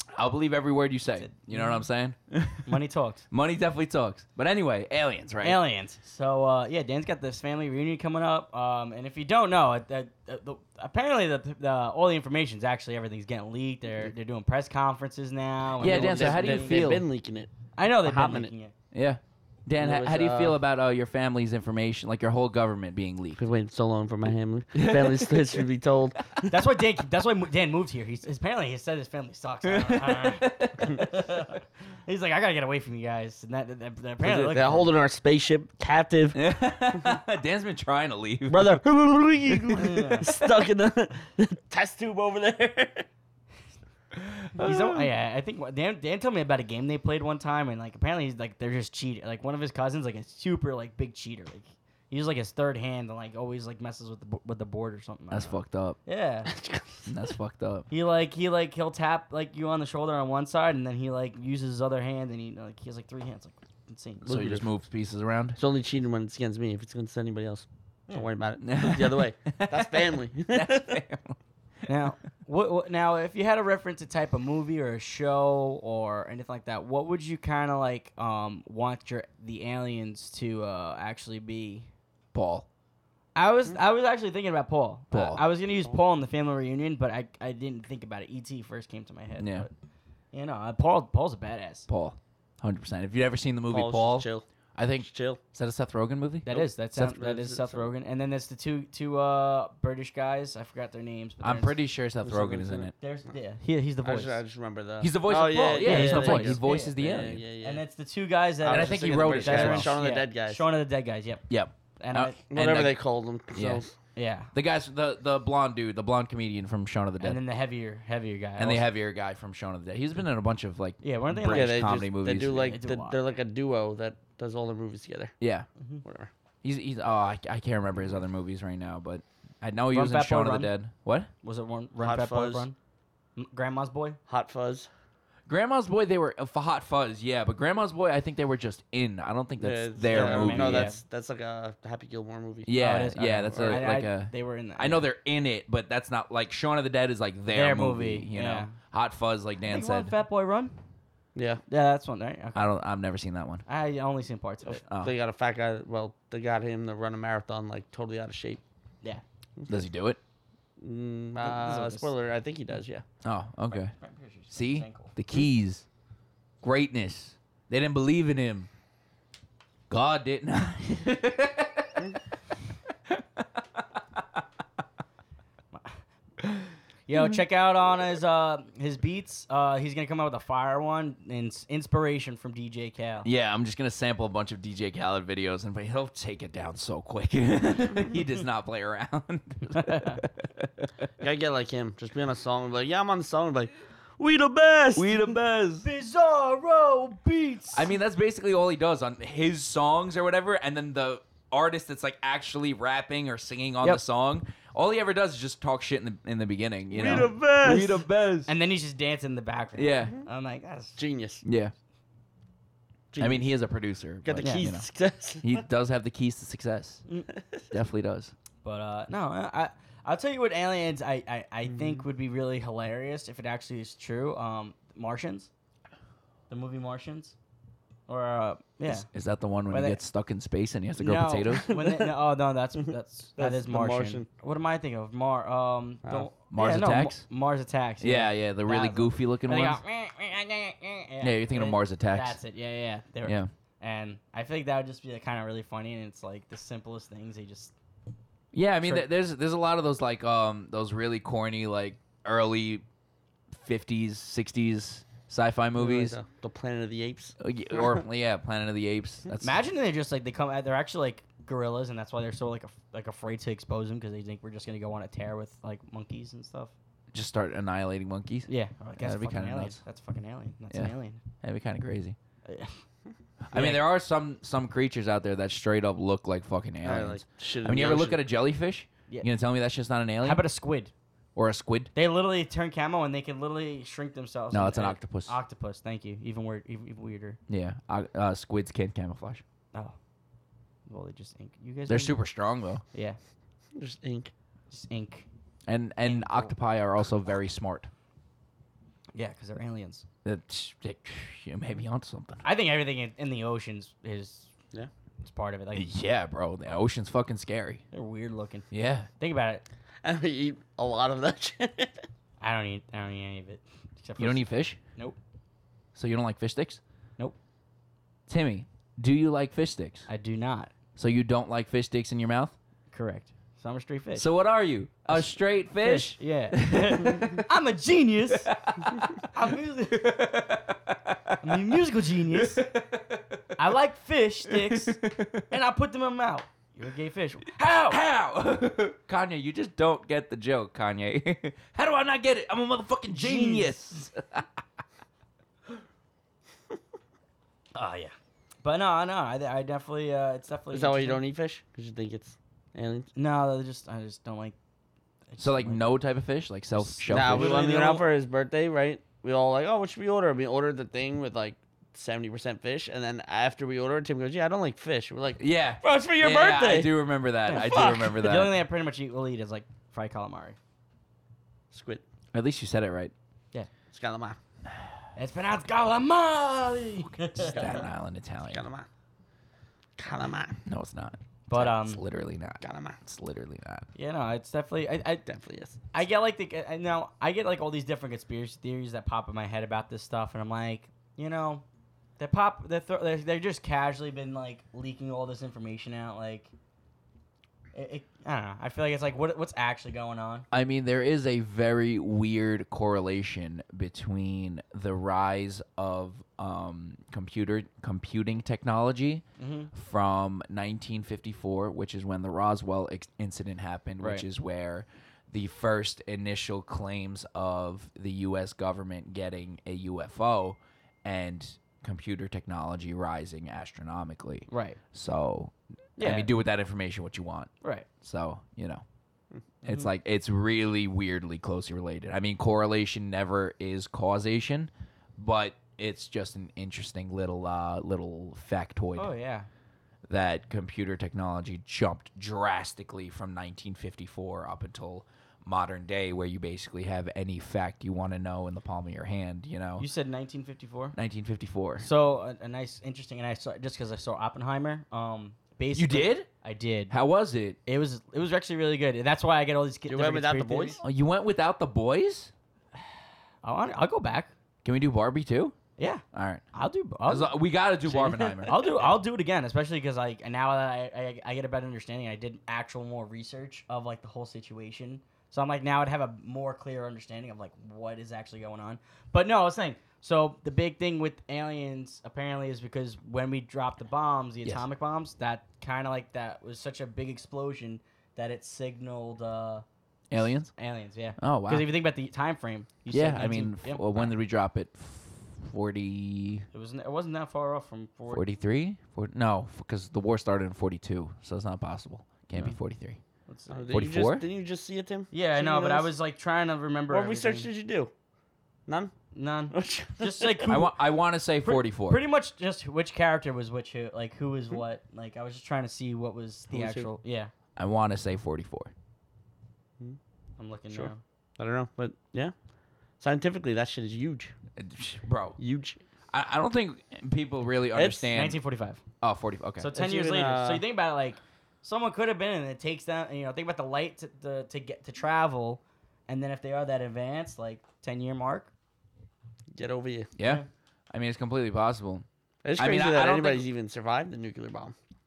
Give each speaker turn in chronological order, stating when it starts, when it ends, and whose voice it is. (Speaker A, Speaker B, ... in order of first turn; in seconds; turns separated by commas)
Speaker A: 0.1-2.8, Speaker B: 1.2-1.8, Speaker B: 2.7-3.2, Speaker A: 3.3-5.6, Speaker B: 5.4-16.9, Speaker A: 15.8-17.1, Speaker C: 15.8-18.5, Speaker B: 17.8-18.7, Speaker A: 18.9-23.4, Speaker C: 19.8-20.6, Speaker C: 23.4-26.6, Speaker A: 24.8-25.6, Speaker B: 26.5-34.9, Speaker A: 29.6-31.0, Speaker C: 34.2-36.4, Speaker A: 36.4-38.8, Speaker C: 38.5-43.1, Speaker A: 39.5-39.8, Speaker B: 39.8-40.3, Speaker A: 44.1-45.1, Speaker B: 44.6-56.5, Speaker A: 55.3-56.0, Speaker C: 56.5-57.1, Speaker A: 57.1-57.9, Speaker B: 57.9-64.3, Speaker C: 64.2-64.7, Speaker A: 64.2-65.6, Speaker C: 65.6-71.0, Speaker A: 68.6-71.4, Speaker B: 71.9-81.9, Speaker A: 82.3-82.7, Speaker B: 83.3-89.7, Speaker A: 85.1-85.4, Speaker A: 89.4-89.7, Speaker B: 90.3-91.9, Speaker A: 91.9-96.5, Speaker C: 93.7-94.5, Speaker C: 95.0-95.4, Speaker B: 96.5-101.8, Speaker C: 96.5-97.9, Speaker A: 101.4-102.9, Speaker C: 102.2-102.9, Speaker B: 103.0-104.4, Speaker C: 104.0-107.8, Speaker A: 105.0-107.4, Speaker B: 105.8-107.0, Speaker B: 107.6-112.4, Speaker C: 108.6-110.6, Speaker A: 108.7-110.0, Speaker A: 111.5-113.0, Speaker C: 112.5-114.0, Speaker A: 113.5-113.8, Speaker B: 114.2-114.5, Speaker A: 114.5-117.4, Speaker B: 117.2-118.8, Speaker A: 118.6-122.7, Speaker B: 121.0-121.9, Speaker C: 121.5-125.3, Speaker B: 122.6-123.2, Speaker A: 125.4-125.7, Speaker C: 126.0-126.3, Speaker A: 126.6-131.3, Speaker B: 129.9-130.7, Speaker B: 131.4-132.8, Speaker C: 132.0-132.7, Speaker B: 133.4-134.2, Speaker C: 134.3-134.9, Speaker A: 135.5-140.9, Speaker C: 139.6-142.7, Speaker B: 140.1-141.0, Speaker A: 142.7-150.1, Speaker B: 142.7-145.1, Speaker B: 147.5-148.8, Speaker B: 149.6-150.8, Speaker C: 151.3-151.6, Speaker B: 151.7-152.7, Speaker A: 152.6-153.6, Speaker B: 153.7-154.8, Speaker C: 154.7-158.6, Speaker A: 154.9-155.1, Speaker A: 159.7-160.2, Speaker C: 160.8-163.0, Speaker B: 161.4-162.1, Speaker A: 163.2-163.9, Speaker B: 163.7-165.1, Speaker A: 164.5-165.9, Speaker A: 166.6-168.7, Speaker A: 169.9-172.2, Speaker A: 173.1-174.4, Speaker B: 175.7-176.0, Speaker B: 177.1-183.3, Speaker A: 183.2-191.1, Speaker B: 189.8-190.2, Speaker C: 191.2-195.2, Speaker A: 194.9-195.9, Speaker B: 195.8-197.9, Speaker A: 197.7-208.5, Speaker C: 206.9-208.0, Speaker B: 208.5-211.0, Speaker A: 209.8-210.1, Speaker C: 211.0-211.4, Speaker A: 211.4-211.7, Speaker C: 213.1-213.5, Speaker A: 213.2-214.9, Speaker C: 214.2-215.6, Speaker B: 214.4-214.7, Speaker A: 215.4-217.0, Speaker A: 217.7-218.3, Speaker B: 218.6-225.5, Speaker C: 221.7-222.0, Speaker B: 226.5-227.4, Speaker B: 228.1-229.1, Speaker A: 228.9-231.7, Speaker B: 229.7-230.0, Speaker B: 231.0-247.7, Speaker C: 231.7-232.1, Speaker C: 233.4-234.3, Speaker A: 236.5-237.2, Speaker A: 238.0-239.8, Speaker A: 241.2-242.4, Speaker A: 243.2-243.5, Speaker A: 248.5-252.8, Speaker A: 253.5-256.2, Speaker C: 255.8-257.9, Speaker A: 257.4-259.6, Speaker B: 259.4-266.7, Speaker A: 267.1-269.8, Speaker B: 268.5-271.2, Speaker A: 270.7-272.2, Speaker B: 272.5-272.8, Speaker A: 273.5-280.4, Speaker B: 273.5-273.8, Speaker C: 276.8-278.2, Speaker B: 280.2-280.9, Speaker A: 281.4-281.9, Speaker B: 281.9-287.4, Speaker A: 284.5-285.4, Speaker A: 287.5-289.4, Speaker B: 290.9-292.2, Speaker A: 291.9-292.8, Speaker B: 292.9-293.2, Speaker C: 293.8-294.3, Speaker B: 294.7-295.3, Speaker A: 295.7-297.9, Speaker B: 296.0-296.5, Speaker B: 299.1-300.1, Speaker A: 300.2-302.4, Speaker B: 302.4-304.5, Speaker B: 305.2-305.9, Speaker A: 305.7-307.8, Speaker B: 307.9-308.7, Speaker A: 308.7-309.1, Speaker B: 309.2-309.6, Speaker C: 310.0-312.0, Speaker B: 312.4-315.2, Speaker A: 314.2-314.8, Speaker A: 315.9-316.8, Speaker A: 318.3-320.1, Speaker B: 320.1-320.7, Speaker A: 321.0-322.6, Speaker B: 322.9-324.3, Speaker A: 324.1-327.4, Speaker B: 325.1-328.5, Speaker A: 328.3-329.2, Speaker B: 329.2-330.3, Speaker A: 329.9-331.7, Speaker B: 331.4-332.7, Speaker A: 332.3-333.4, Speaker B: 333.6-338.0, Speaker A: 334.5-335.4, Speaker A: 337.9-344.5, Speaker B: 343.1-343.9, Speaker B: 347.8-351.2, Speaker C: 350.7-353.1, Speaker B: 353.1-354.6, Speaker B: 355.3-355.9, Speaker A: 355.4-357.6, Speaker B: 356.8-358.0, Speaker C: 357.1-367.0, Speaker A: 365.4-368.6, Speaker B: 367.5-370.6, Speaker C: 367.5-368.2, Speaker C: 371.7-372.0, Speaker A: 372.3-373.1, Speaker C: 373.9-374.4, Speaker B: 375.2-377.8, Speaker A: 377.2-378.6, Speaker C: 377.4-377.9, Speaker C: 378.5-378.9, Speaker C: 380.0-380.6, Speaker A: 380.7-383.9, Speaker B: 381.5-382.0, Speaker C: 382.6-383.0, Speaker B: 383.9-385.2, Speaker C: 385.3-385.8, Speaker B: 385.9-391.6, Speaker B: 392.2-396.5, Speaker B: 397.7-400.5, Speaker A: 400.5-428.8, Speaker B: 409.4-409.7, Speaker B: 414.0-414.2, Speaker B: 424.5-424.8, Speaker B: 426.0-426.3, Speaker B: 427.6-427.9, Speaker B: 429.6-429.9, Speaker A: 429.6-439.1, Speaker B: 439.0-439.5, Speaker A: 440.1-449.9, Speaker B: 449.8-451.0, Speaker A: 451.0-451.9, Speaker B: 451.8-456.9, Speaker A: 455.8-456.3, Speaker A: 456.9-457.6, Speaker B: 457.7-460.8, Speaker C: 459.9-460.8, Speaker A: 460.8-462.3, Speaker B: 463.4-464.3, Speaker A: 464.6-465.6, Speaker B: 465.8-489.6, Speaker A: 466.1-466.4, Speaker A: 467.1-468.8, Speaker A: 490.1-490.5, Speaker B: 490.2-494.1, Speaker A: 491.2-491.7, Speaker A: 492.9-496.5, Speaker B: 496.5-498.3, Speaker A: 498.1-503.0, Speaker B: 503.3-503.8, Speaker C: 503.5-505.9, Speaker A: 503.7-504.2, Speaker B: 505.1-507.5, Speaker C: 506.9-507.9, Speaker C: 508.7-508.9, Speaker B: 509.1-510.8, Speaker C: 509.5-510.6, Speaker A: 510.5-512.0, Speaker B: 511.4-517.3, Speaker C: 516.5-516.9, Speaker A: 517.6-518.7, Speaker B: 520.4-521.0, Speaker C: 520.7-522.3, Speaker C: 523.0-524.3, Speaker A: 524.6-525.4, Speaker C: 525.4-525.8, Speaker A: 526.1-528.4, Speaker C: 527.7-528.1, Speaker B: 528.1-528.8, Speaker A: 529.0-529.7, Speaker B: 529.6-538.5, Speaker C: 529.7-530.6, Speaker C: 539.5-540.1, Speaker A: 540.2-542.1, Speaker B: 540.2-540.5, Speaker C: 542.4-544.8, Speaker A: 542.6-543.5